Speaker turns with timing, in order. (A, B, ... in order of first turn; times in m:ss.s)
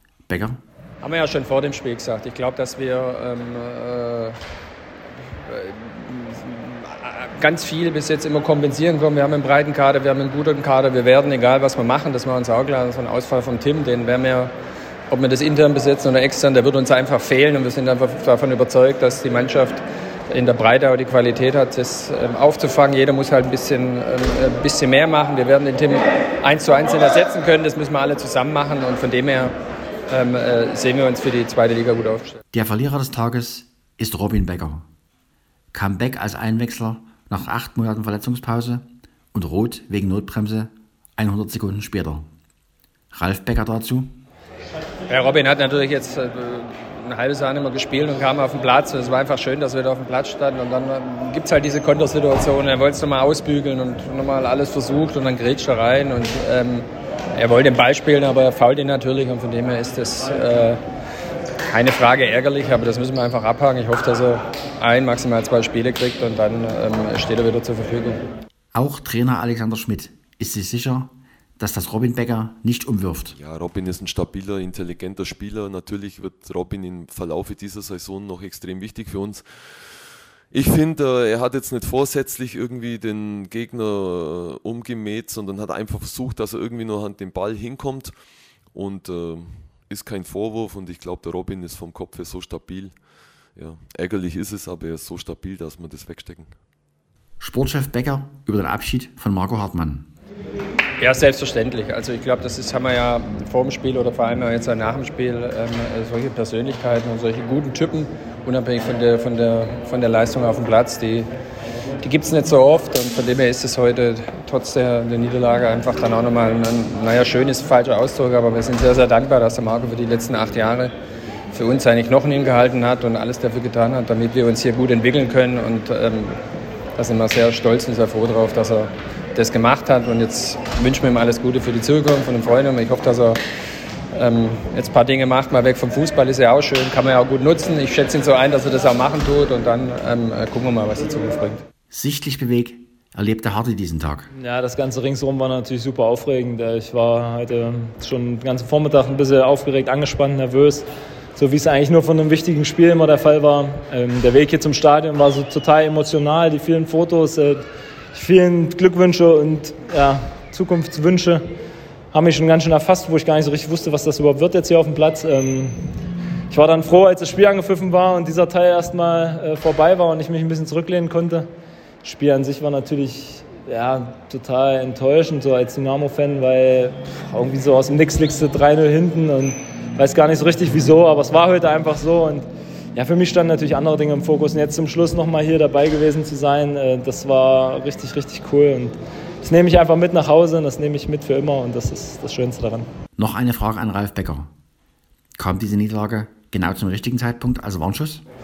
0:00.3-0:00.6 A
0:01.0-0:04.4 B
0:05.3-0:14.5 B
0:15.1-0:29.5 B
0:30.1-0:32.4 B
0:32.5-0:34.8 A
0:35.7-0:42.2 A
0:43.1-0:44.1 A
0:45.1-1:00.8 B
1:01.7-1:08.2 B
1:08.7-1:13.4 A
1:13.3-1:28.1 C
1:28.7-1:32.9 C
1:33.6-1:36.5 C
1:37.4-1:40.1 A
1:41.0-1:51.3 B
1:52.0-2:00.9 B
2:01.5-2:06.4 B
2:07.0-2:13.4 B
2:14.1-2:21.6 B
2:21.9-2:24.3 A
2:24.3-2:41.4 D
2:42.1-2:45.9 D
2:46.5-2:51.5 D
2:52.0-3:12.9 D
3:13.2-3:14.5 A
3:15.4-3:18.2 A